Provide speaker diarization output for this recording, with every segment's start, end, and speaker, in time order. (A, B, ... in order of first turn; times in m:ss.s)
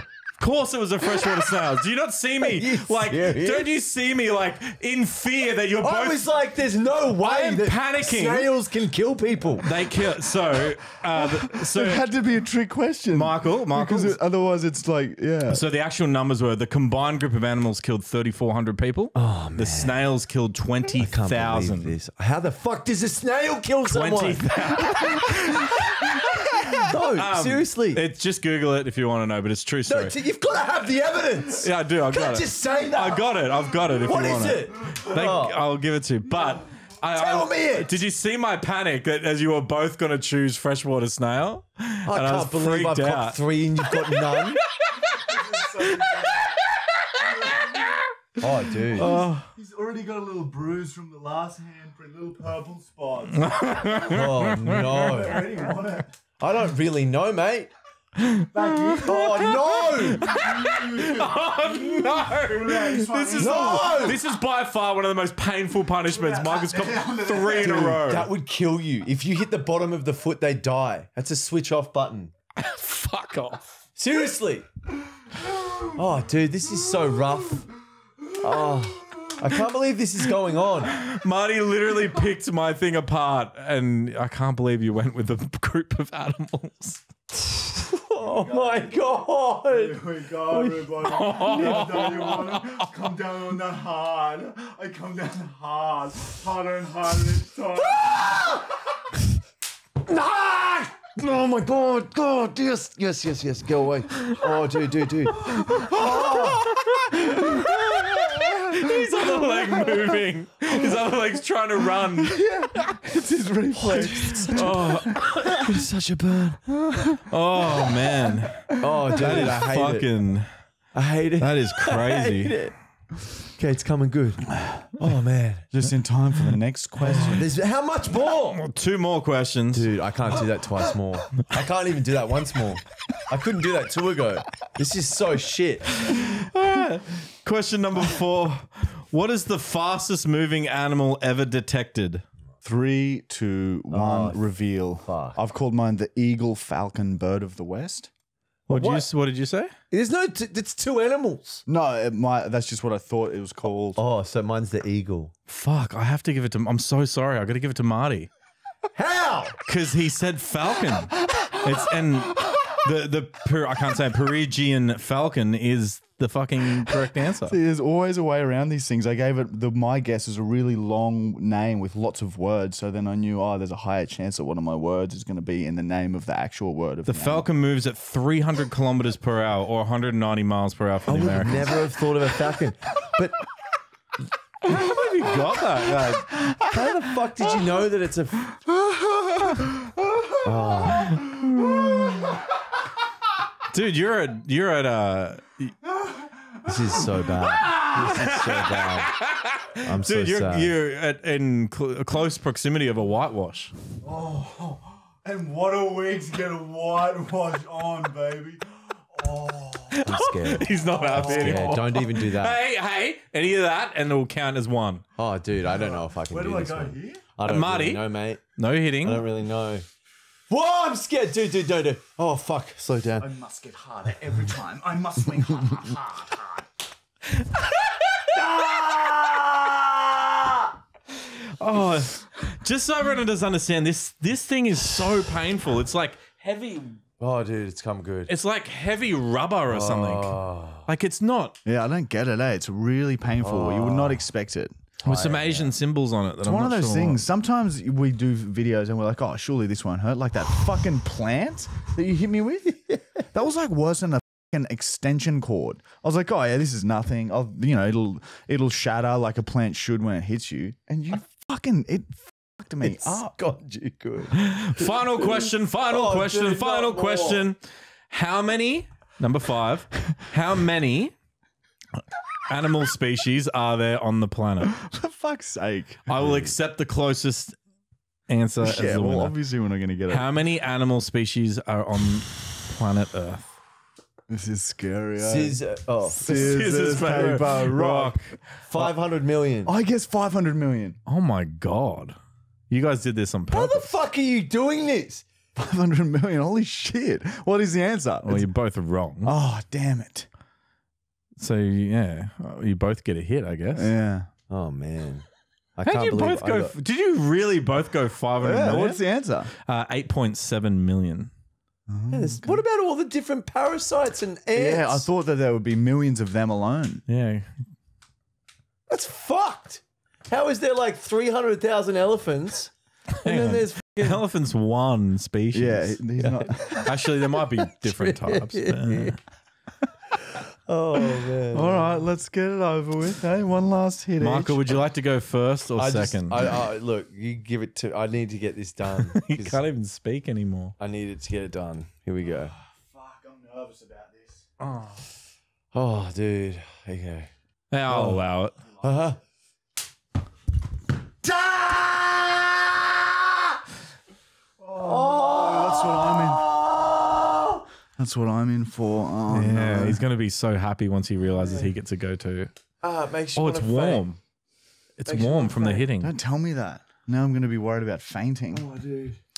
0:00.4-0:06.2 A
0:02.5-0:03.7 B
0:05.8-0:09.7 B
0:07.2-0:08.5 A
0:09.6-0:12.0 A
0:11.1-0:15.6 C
0:13.1-0:14.2 A
0:15.5-0:22.0 A
0:19.1-0:20.0 B
0:21.0-0:24.5 B
0:23.9-0:30.1 A
0:26.7-0:28.0 B
0:29.9-0:33.4 B
0:31.6-0:43.4 A
0:33.9-0:35.6 B
0:37.1-0:38.0 B
0:42.0-0:44.6 B
0:45.0-0:46.6 C
0:47.1-0:47.9 C
0:48.4-0:49.1 B
0:48.9-0:49.5 A
0:49.0-0:53.9 C
0:53.3-0:55.5 A
0:54.1-0:55.5 B
0:55.0-0:56.1 C
0:56.4-0:57.7 B
0:58.2-1:08.3 A
0:58.5-1:04.1 C
0:59.0-1:00.3 B
1:03.4-1:04.2 B
1:06.1-1:08.0 C
1:07.6-1:12.3 B
1:12.6-1:13.7 A
1:14.0-1:14.6 B
1:15.9-1:17.7 B
1:18.4-1:21.0 B
1:20.9-1:27.0 A
1:27.5-1:32.3 B
1:28.2-1:38.5 C
1:31.0-1:33.0 A
1:40.1-1:41.2 B
1:41.2-1:44.5 A
1:44.3-1:46.6 B
1:45.4-1:46.6 C
1:46.6-1:53.0 A
1:47.1-1:47.7 C
1:48.4-1:50.0 C
1:52.2-1:55.6 C
1:53.8-1:56.6 B
1:53.9-1:55.6 A
1:56.7-1:57.8 C
1:57.3-2:00.5 A
1:58.7-1:59.4 C
1:58.8-2:00.1 B
2:00.9-2:02.7 B
2:01.4-2:02.6 A
2:03.4-2:05.7 B
2:05.7-2:07.4 C
2:07.1-2:08.6 B
2:08.5-2:09.9 A
2:09.7-2:16.0 B
2:16.1-2:22.2 A
2:22.6-2:28.1 C
2:23.9-2:24.4 B
2:25.0-2:25.4 B
2:28.7-2:29.1 B
2:28.7-2:29.7 A
2:29.9-2:31.6 B
2:31.7-2:34.0 C
2:34.0-2:35.3 B
2:35.5-2:38.3 A
2:38.9-2:39.6 B
2:39.7-2:47.6 A
2:47.5-2:57.5 C
2:57.0-3:01.8 A
3:01.1-3:03.4 B
3:04.7-3:06.4 A
3:06.6-3:08.6 B
3:10.4-3:11.2 B
3:11.6-3:11.9 C
3:13.7-3:15.7 A
3:16.6-3:19.1 B
3:17.7-3:23.7 A
3:19.8-3:20.7 B
3:24.0-3:30.1 C
3:30.0-3:35.0 A
3:30.0-3:32.6 B
3:30.8-3:31.8 C
3:35.2-3:38.5 B
3:35.7-3:37.2 C
3:37.4-3:38.0 A
3:38.6-3:39.3 A
3:39.0-3:39.8 B
3:40.5-3:43.3 B
3:43.2-3:46.6 C
3:48.3-3:50.7 B
3:51.2-3:57.0 A
3:57.2-3:58.3 B
3:58.3-4:01.6 A
3:59.7-4:00.9 B
4:01.6-4:05.6 C
4:03.4-4:04.2 B
4:05.0-4:07.2 A
4:05.1-4:05.5 B
4:06.4-4:23.4 C
4:22.8-4:27.5 B
4:24.3-4:31.1 A
4:32.5-4:34.7 A
4:34.7-4:36.2 C
4:36.1-4:37.6 A
4:38.3-4:39.4 A
4:38.6-4:40.4 C
4:40.1-4:43.5 A
4:44.3-4:48.2 C
4:45.2-4:46.4 B
4:46.2-4:48.4 A
4:48.6-4:49.7 B
4:49.6-4:51.0 C
4:51.0-4:52.2 A
4:52.7-4:53.9 A
4:53.5-4:55.2 B
4:55.6-4:58.5 C
4:58.2-4:59.3 A
4:59.2-5:00.3 C
5:01.4-5:03.9 A
5:03.7-5:04.3 C
5:04.5-5:06.7 B
5:05.8-5:09.0 A
5:08.4-5:09.5 C
5:09.5-5:11.3 A
5:11.9-5:12.6 C
5:12.1-5:15.1 B
5:14.5-5:17.0 C
5:17.1-5:17.5 A
5:18.9-5:24.2 B
5:23.1-5:26.0 A
5:25.5-5:26.9 C
5:26.2-5:26.8 B
5:26.8-5:29.2 A
5:27.6-5:29.2 B
5:30.7-5:31.9 B
5:31.5-5:34.6 C
5:34.2-5:36.6 A
5:35.8-5:39.6 B
5:38.9-5:40.7 A
5:40.8-5:42.5 B
5:42.3-5:44.5 C
5:44.6-5:44.9 A
5:45.7-5:47.3 B
5:47.7-5:48.6 A
5:48.8-5:49.2 B
5:51.4-5:51.7 C
5:51.7-5:52.4 B
5:54.6-5:56.5 C
5:54.8-5:57.6 B
5:58.0-6:00.0 C
5:59.3-6:02.5 A
6:02.8-6:04.0 B
6:03.3-6:04.2 A
6:05.0-6:06.1 A
6:05.0-6:05.8 B
6:06.0-6:08.7 C
6:08.5-6:09.2 B